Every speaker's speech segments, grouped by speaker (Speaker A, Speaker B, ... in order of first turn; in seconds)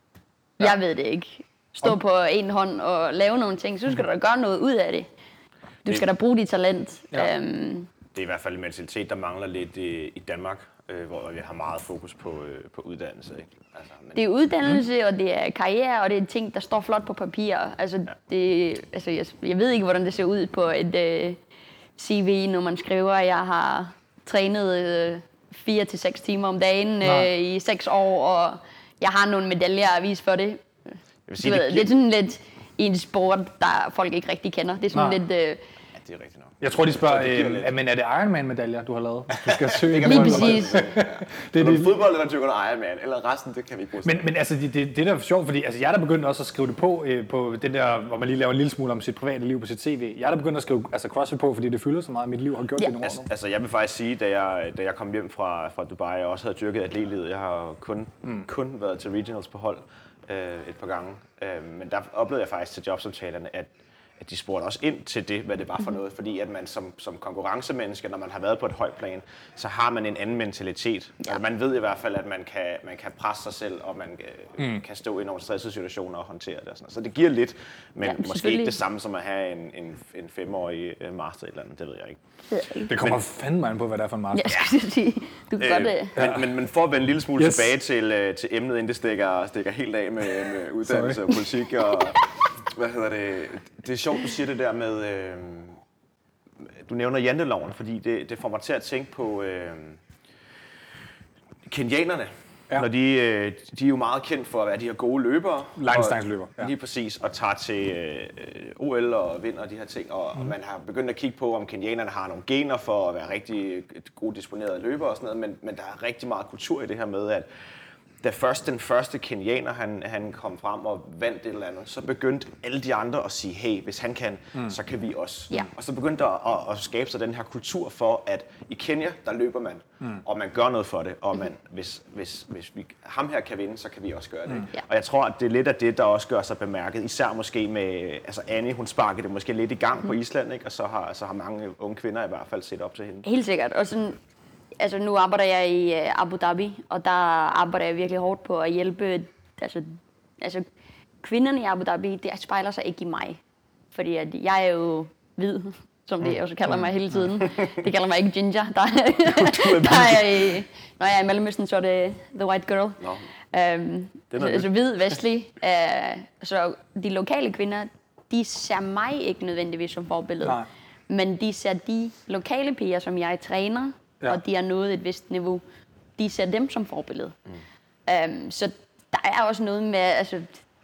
Speaker A: 0.6-5.1, 5.8-7.9, 14.1-21.4, 22.0-30.7, 31.4-35.6, 40.0-40.9, 78.0-78.8, 82.5-82.9, 84.3-86.2, 91.9-92.2, 143.2-144.2, 144.8-150.7, 151.2-153.4, 153.9-163.0, 163.5-175.6, 176.2-177.3, 178.1-180.6
Speaker B: 8.1-14.3, 31.3-31.9, 36.0-37.7, 39.4-44.3, 53.0-82.2, 85.6-95.8, 96.8-100.0, 101.7-117.5, 118.2-143.2, 159.3-160.3, 164.3-164.7
Speaker C: 27.0-27.3, 36.6-42.0, 44.0-53.3, 82.9-84.6, 86.2-86.5, 87.4-87.7, 90.8-91.3, 105.8-106.7